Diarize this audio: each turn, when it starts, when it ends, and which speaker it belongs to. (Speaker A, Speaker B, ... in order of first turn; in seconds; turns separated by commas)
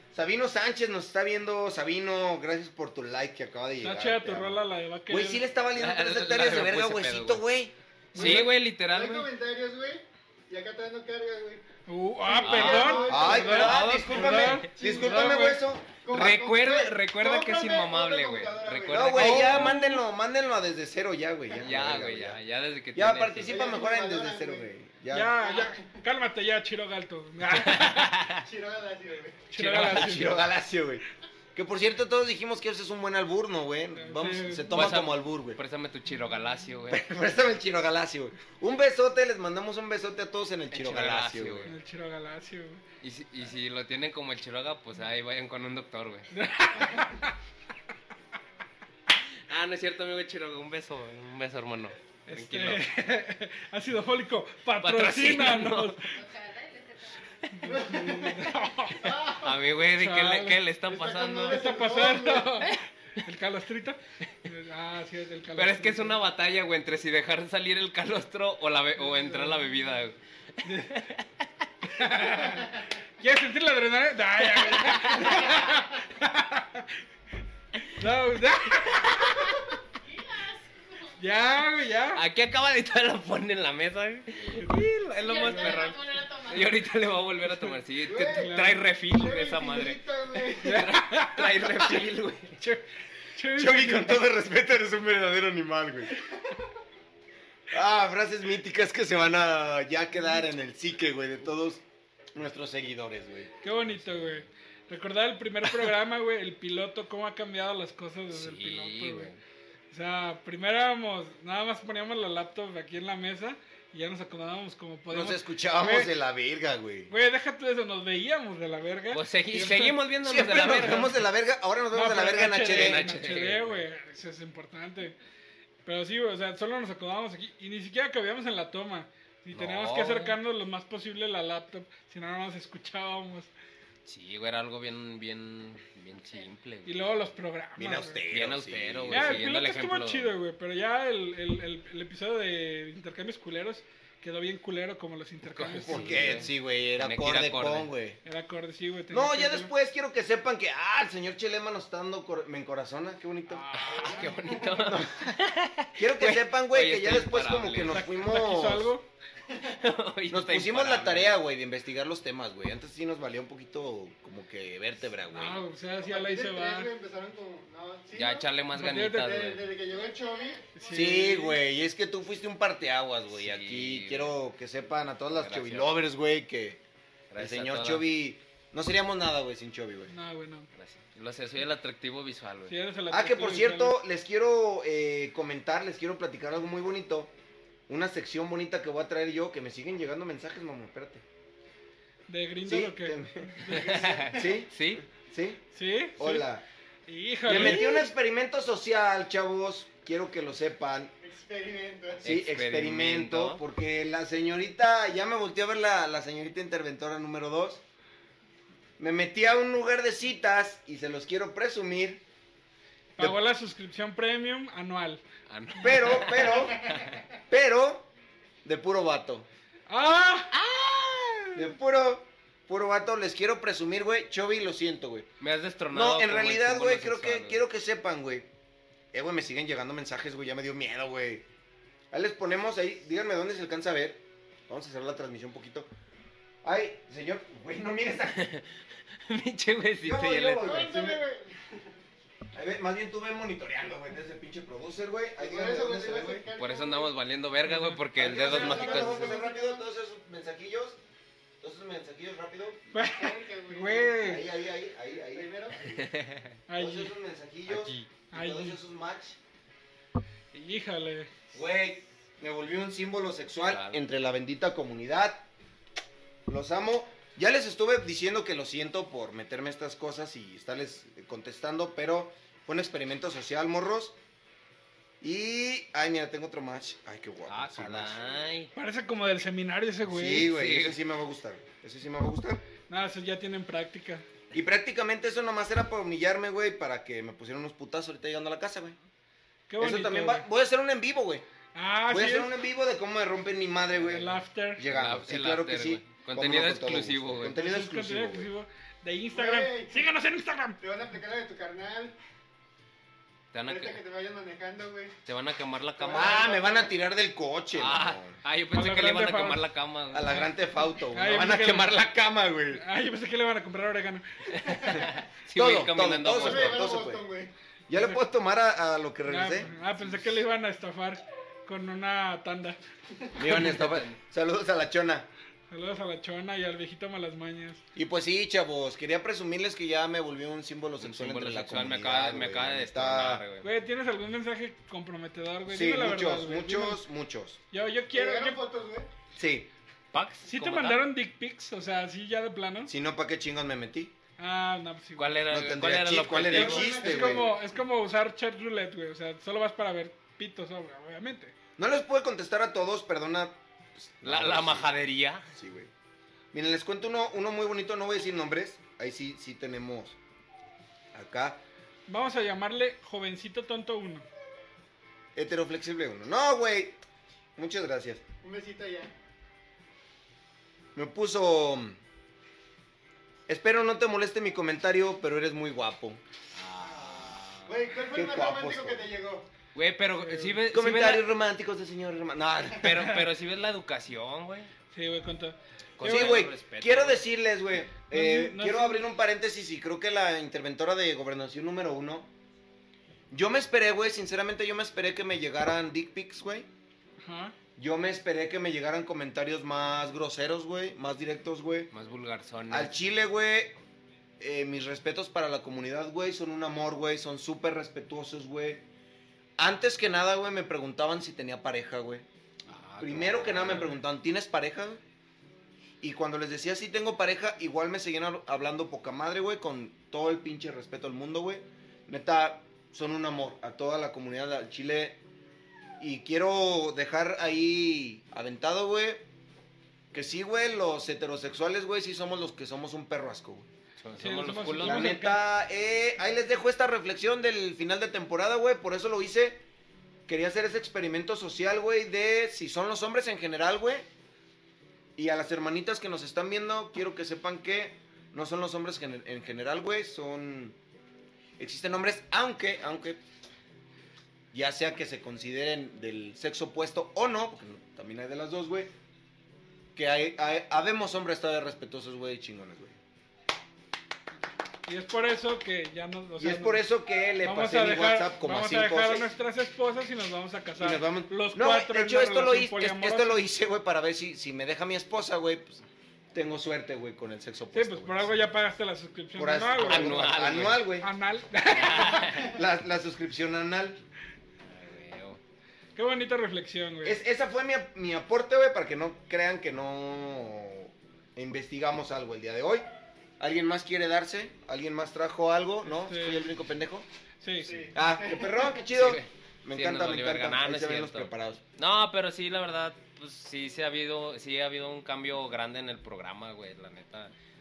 Speaker A: 0.1-8.4, Speaker B: 3.8-5.4, Speaker C: 5.8-7.4, Speaker B: 8.1-8.5, Speaker C: 8.1-9.3, Speaker D: 8.2-11.6, Speaker B: 11.9-15.6, Speaker D: 12.3-19.6, Speaker C: 12.4-14.7, Speaker A: 13.1-16.4, Speaker C: 16.1-19.8, Speaker A: 18.9-22.4, Speaker B: 19.1-20.0, Speaker C: 21.6-23.7, Speaker A: 22.9-25.4, Speaker D: 23.4-24.7, Speaker B: 25.1-28.1, Speaker D: 25.4-25.8, Speaker C: 27.5-28.4, Speaker D: 28.4-29.5, Speaker B: 29.5-30.4, Speaker C: 29.6-30.2, Speaker A: 29.8-31.0, Speaker A: 31.6-35.6, Speaker B: 34.0-34.9, Speaker C: 34.7-37.0, Speaker A: 36.9-41.7, Speaker C: 40.7-41.7, Speaker B: 41.7-42.8, Speaker C: 43.0-46.3, Speaker B: 46.3-47.4, Speaker C: 49.5-52.8, Speaker B: 52.3-56.2, Speaker C: 54.8-56.0, Speaker E: 56.1-57.7, Speaker B: 57.5-59.3, Speaker D: 57.7-58.5, Speaker D: 59.0-59.5, Speaker C: 59.3-61.8, Speaker B: 59.9-60.6, Speaker D: 60.9-62.7, Speaker B: 61.5-66.2, Speaker C: 65.6-71.3, Speaker B: 69.0-69.6, Speaker B: 70.6-71.1, Speaker B: 71.8-76.9, Speaker C: 74.5-75.5, Speaker B: 78.0-79.5, Speaker C: 78.7-79.3, Speaker E: 79.4-81.1, Speaker B: 81.2-82.2, Speaker C: 82.1-92.6, Speaker B: 84.6-85.8, Speaker E: 85.2-86.9, Speaker B: 87.5-88.8, Speaker D: 88.1-90.8, Speaker B: 90.6-91.8, Speaker B: 93.3-94.2, Speaker A: 93.5-96.2, Speaker A: 97.7-101.8, Speaker A: 102.3-103.5, Speaker B: 103.6-109.3, Speaker C: 103.9-104.4, Speaker C: 108.3-109.4, Speaker B: 109.9-116.1, Speaker A: 115.1-117.1, Speaker B: 117.1-120.0, Speaker C: 119.1-121.2, Speaker A: 120.2-123.0, Speaker B: 121.9-125.2, Speaker C: 122.7-123.8, Speaker B: 125.8-133.5, Speaker C: 129.5-130.4, Speaker C: 134.1-137.3, Speaker B: 136.9-138.2, Speaker A: 137.8-139.4, Speaker C: 138.3-140.3, Speaker B: 139.1-146.4, Speaker C: 145.5-147.9, Speaker A: 145.8-148.2, Speaker B: 148.2-149.7, Speaker A: 149.1-153.8, Speaker B: 153.5-154.3, Speaker C: 153.7-158.0, Speaker D: 154.0-154.8, Speaker A: 154.8-155.3, Speaker A: 156.0-158.9, Speaker B: 157.9-159.1, Speaker C: 159.7-161.3, Speaker A: 160.3-165.6, Speaker B: 165.3-166.9, Speaker D: 166.0-168.5, Speaker C: 168.1-169.7, Speaker B: 168.8-169.4, Speaker D: 169.1-170.6, Speaker E: 169.9-171.1, Speaker B: 170.8-171.6, Speaker A: 170.9-176.8, Speaker C: 173.3-174.3, Speaker C: 175.3-175.9, Speaker C: 177.3-178.1, Speaker A: 177.4-180.1, Speaker B: 180.1-180.7, Speaker C: 180.8-182.7, Speaker B: 182.7-184.0, Speaker A: 183.1-187.3, Speaker A: 187.9-191.2, Speaker B: 192.3-194.1, Speaker A: 192.7-193.7, Speaker D: 193.7-194.6, Speaker C: 193.7-195.0, Speaker A: 194.3-195.6, Speaker B: 195.7-196.5, Speaker A: 196.2-196.7, Speaker B: 197.1-198.1, Speaker A: 197.5-201.1, Speaker C: 197.5-197.8, Speaker D: 201.2-202.2, Speaker C: 202.2-203.6, Speaker A: 202.2-207.8, Speaker A: 209.0-212.2, Speaker B: 213.2-215.2, Speaker C: 215.5-217.2, Speaker A: 215.8-216.9, Speaker A: 217.5-218.1, Speaker A: 218.6-219.5, Speaker B: 219.9-220.6, Speaker C: 220.6-221.4, Speaker A: 221.6-225.3, Speaker C: 225.4-227.6, Speaker A: 225.9-228.5, Speaker A: 229.1-231.4, Speaker A: 232.1-235.9, Speaker A: 236.6-238.5, Speaker C: 238.3-238.7, Speaker C: 239.3-240.8, Speaker A: 240.0-241.2, Speaker D: 240.6-241.8, Speaker A: 242.5-246.5, Speaker D: 245.4-247.1, Speaker C: 246.6-249.3, Speaker B: 247.7-248.0, Speaker A: 248.2-251.0, Speaker D: 248.2-249.8, Speaker A: 251.6-252.8, Speaker B: 252.9-254.5, Speaker D: 253.0-254.4, Speaker A: 254.2-256.0, Speaker D: 255.3-255.8, Speaker C: 255.8-256.6, Speaker B: 256.7-257.1, Speaker A: 256.8-259.4, Speaker C: 257.7-258.1, Speaker B: 258.3-258.8, Speaker B: 260.5-261.3, Speaker A: 261.5-265.5, Speaker C: 263.7-264.0, Speaker A: 266.5-274.2, Speaker A: 275.2-278.3, Speaker C: 277.5-278.7, Speaker B: 278.7-280.5, Speaker A: 280.1-282.6, Speaker C: 280.5-281.0, Speaker B: 282.9-284.3, Speaker A: 284.5-289.0, Speaker B: 289.7-290.5, Speaker A: 289.8-291.4, Speaker B: 291.8-292.5, Speaker A: 292.1-298.5, Speaker B: 294.0-294.9, Speaker C: 294.9-297.6, Speaker B: 297.5-300.8, Speaker D: 299.3-300.0, Speaker D: 300.8-302.1, Speaker C: 303.5-304.0, Speaker D: 303.7-305.1, Speaker C: 305.3-306.5, Speaker D: 306.0-306.9, Speaker A: 306.1-308.4, Speaker C: 307.7-310.3, Speaker B: 308.7-309.6, Speaker A: 310.1-312.8, Speaker B: 311.1-312.0, Speaker B: 312.7-314.8, Speaker C: 314.6-316.9, Speaker A: 315.5-317.2, Speaker D: 316.3-317.5, Speaker A: 317.9-319.7, Speaker B: 317.9-318.2, Speaker B: 319.3-322.8, Speaker A: 323.4-325.3, Speaker C: 323.5-324.1, Speaker B: 325.7-327.8, Speaker A: 327.9-333.4, Speaker C: 331.0-333.7, Speaker B: 333.6-337.0, Speaker A: 335.7-337.6, Speaker B: 337.7-338.6, Speaker D: 338.1-339.1, Speaker A: 339.4-339.7, Speaker C: 340.1-341.0, Speaker B: 340.5-342.9, Speaker A: 342.9-344.1, Speaker B: 344.4-345.3, Speaker C: 345.2-347.0, Speaker A: 345.5-347.5, Speaker D: 346.5-347.5, Speaker B: 346.5-351.5, Speaker A: 351.8-354.9, Speaker C: 354.2-355.4, Speaker A: 355.5-355.9, Speaker A: 356.5-360.2, Speaker A: 361.1-361.6, Speaker B: 362.1-364.3, Speaker A: 365.4-367.0, Speaker A: 367.6-368.2, Speaker D: 368.4-369.1, Speaker A: 370.9-372.0, Speaker A: 373.5-376.2, Speaker C: 376.5-377.9, Speaker D: 376.8-379.5, Speaker A: 378.1-379.1, Speaker C: 379.8-381.3, Speaker B: 380.2-380.6, Speaker A: 380.7-383.1, Speaker C: 382.8-384.7, Speaker B: 384.9-386.5, Speaker C: 386.0-387.2, Speaker A: 386.0-392.3, Speaker B: 388.1-389.0, Speaker A: 393.3-396.7, Speaker B: 397.2-397.6, Speaker A: 397.8-401.9, Speaker C: 401.9-402.9, Speaker A: 402.7-403.8, Speaker A: 404.4-408.9, Speaker A: 409.6-412.3, Speaker C: 412.7-414.0, Speaker A: 413.0-415.0, Speaker A: 416.0-425.2, Speaker A: 426.0-429.3, Speaker A: 430.1-433.7, Speaker C: 434.0-435.2, Speaker B: 434.2-435.4, Speaker A: 434.8-439.6, Speaker A: 440.3-444.1, Speaker A: 445.2-450.8, Speaker A: 451.6-453.2, Speaker A: 454.5-458.9, Speaker A: 459.9-463.0, Speaker B: 464.9-466.8, Speaker A: 466.4-469.3, Speaker B: 467.4-473.4, Speaker A: 470.8-475.8, Speaker A: 476.3-478.3, Speaker B: 477.7-482.4, Speaker A: 479.4-481.1, Speaker C: 479.8-480.9, Speaker C: 481.7-482.5, Speaker A: 482.1-484.0, Speaker C: 484.7-485.4, Speaker B: 486.0-487.2, Speaker A: 487.0-492.9, Speaker A: 493.4-497.1, Speaker B: 495.9-496.5, Speaker B: 497.4-497.9, Speaker D: 497.6-498.8, Speaker A: 497.9-501.6, Speaker C: 498.9-507.3